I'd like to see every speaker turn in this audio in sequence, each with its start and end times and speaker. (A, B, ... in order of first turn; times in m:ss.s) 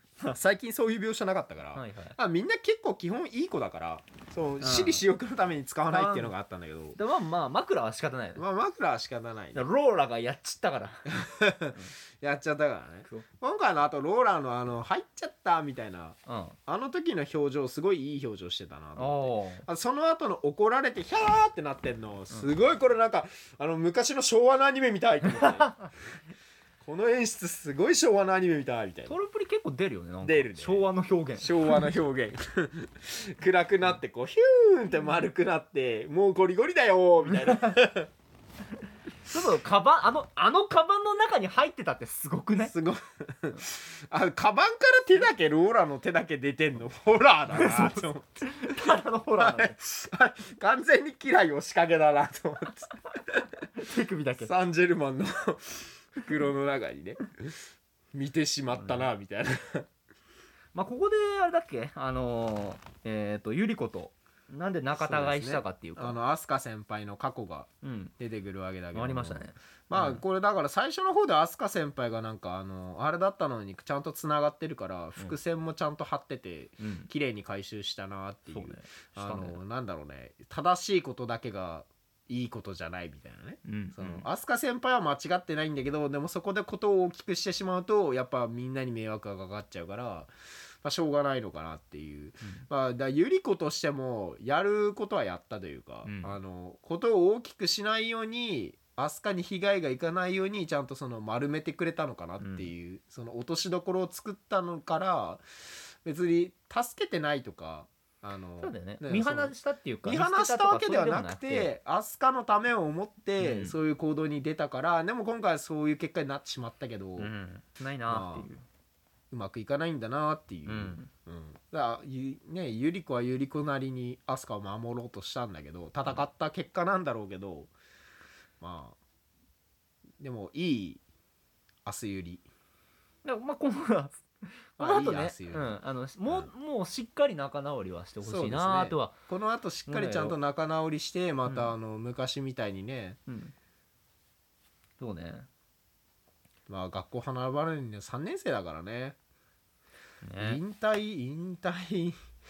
0:00.2-0:07.0 A
0:01.7-0:02.2 B
0:04.6-0:05.0 B
0:05.9-0:06.3 B
0:07.0-0:08.4 B
0:08.4-0:09.6 A
0:09.5-0:11.1 B
0:11.1-0:16.2 A
0:16.2-0:16.6 B
0:16.7-0:25.9 A
0:19.0-0:19.6 B
0:26.8-0:29.2 A
0:29.1-0:31.8 B
0:30.2-0:30.8 A
0:31.4-0:38.1 A
0:39.2-0:42.7 B
0:42.6-0:53.4 A
0:47.5-0:49.8 B
0:53.8-0:54.5 B
0:54.4-0:59.9 A
0:58.7-0:59.1 B
1:00.7-1:06.2 B
1:04.9-1:30.3 A
1:07.8-1:08.1 B
1:08.9-1:10.2 B
1:16.8-1:17.1 B
1:18.5-1:19.6 B
1:23.6-1:24.3 B
1:30.8-1:57.3 A
1:36.0-1:36.4 B
1:42.4-1:42.7 B
1:48.6-1:51.7 B
1:53.4-1:53.8 B
1:57.2-1:58.6 B
1:58.1-1:58.5 A
1:59.3-2:07.7 A
2:00.6-2:01.1 B
2:08.6-2:09.0 A
2:10.2-2:11.0 A
2:11.8-2:12.4 A
2:13.2-2:19.1 B
2:14.8-2:16.5 A
2:18.2-2:23.2 A
2:19.8-2:20.4 B
2:21.4-2:21.7 B
2:23.3-2:23.5 B
2:25.0-2:25.5 B
2:26.7-2:29.2 A
2:30.2-2:30.6 B
2:30.4-2:32.2 A